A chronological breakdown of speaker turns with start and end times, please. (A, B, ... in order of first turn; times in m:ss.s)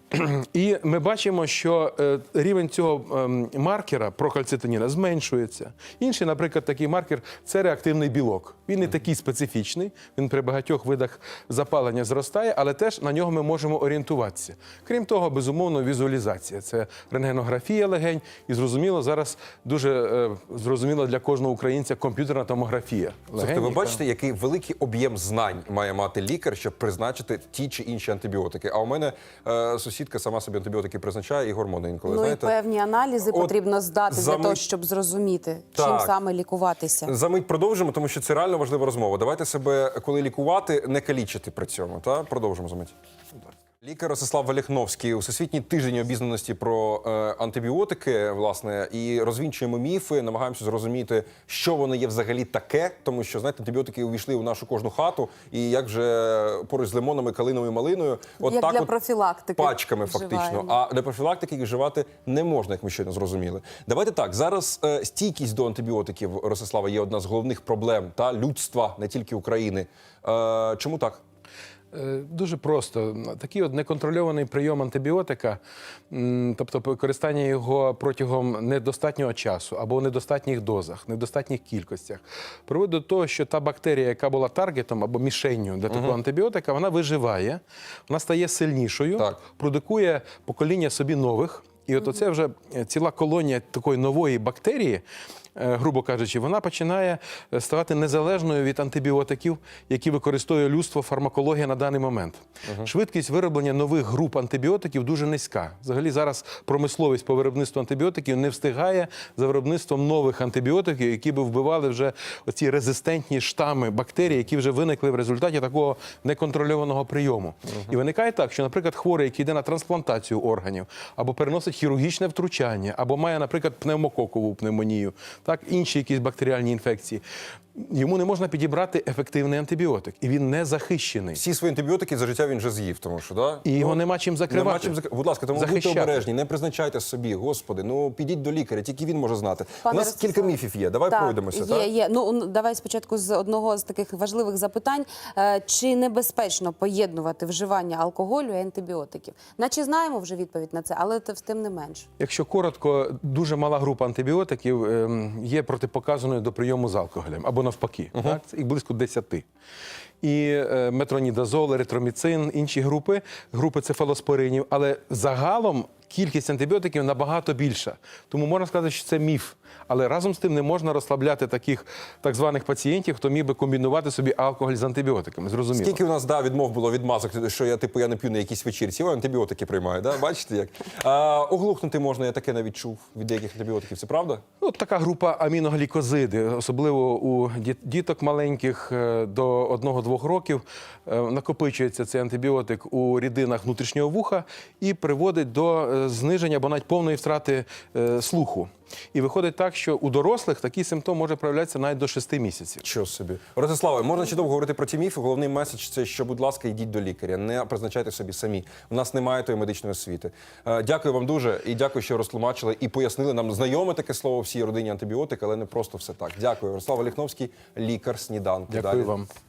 0:00.1-0:24.0 A
0:23.4-0:32.5 B
0:32.0-0:37.1 C
0:33.3-0:33.5 B
0:34.1-0:34.6 B
0:35.7-0:36.1 B
0:37.0-0:42.9 B
0:43.8-0:58.9 B
0:58.4-1:00.8 C
0:59.6-1:11.2 B
1:11.9-1:15.6 A
1:16.1-1:35.0 A
1:25.9-1:26.2 B
1:35.6-2:07.2 A
1:42.6-1:42.9 B
2:07.8-2:11.4 A
2:11.3-2:21.9 B
2:13.6-2:15.0 A
2:15.5-2:16.2 A
2:19.8-2:32.1 C
2:32.2-2:39.4 A
2:38.1-2:38.4 B
2:40.2-2:56.0 A
2:55.7-3:04.4 B
3:04.6-3:22.8 A
3:22.8-3:39.1 B
3:38.7-3:39.3 A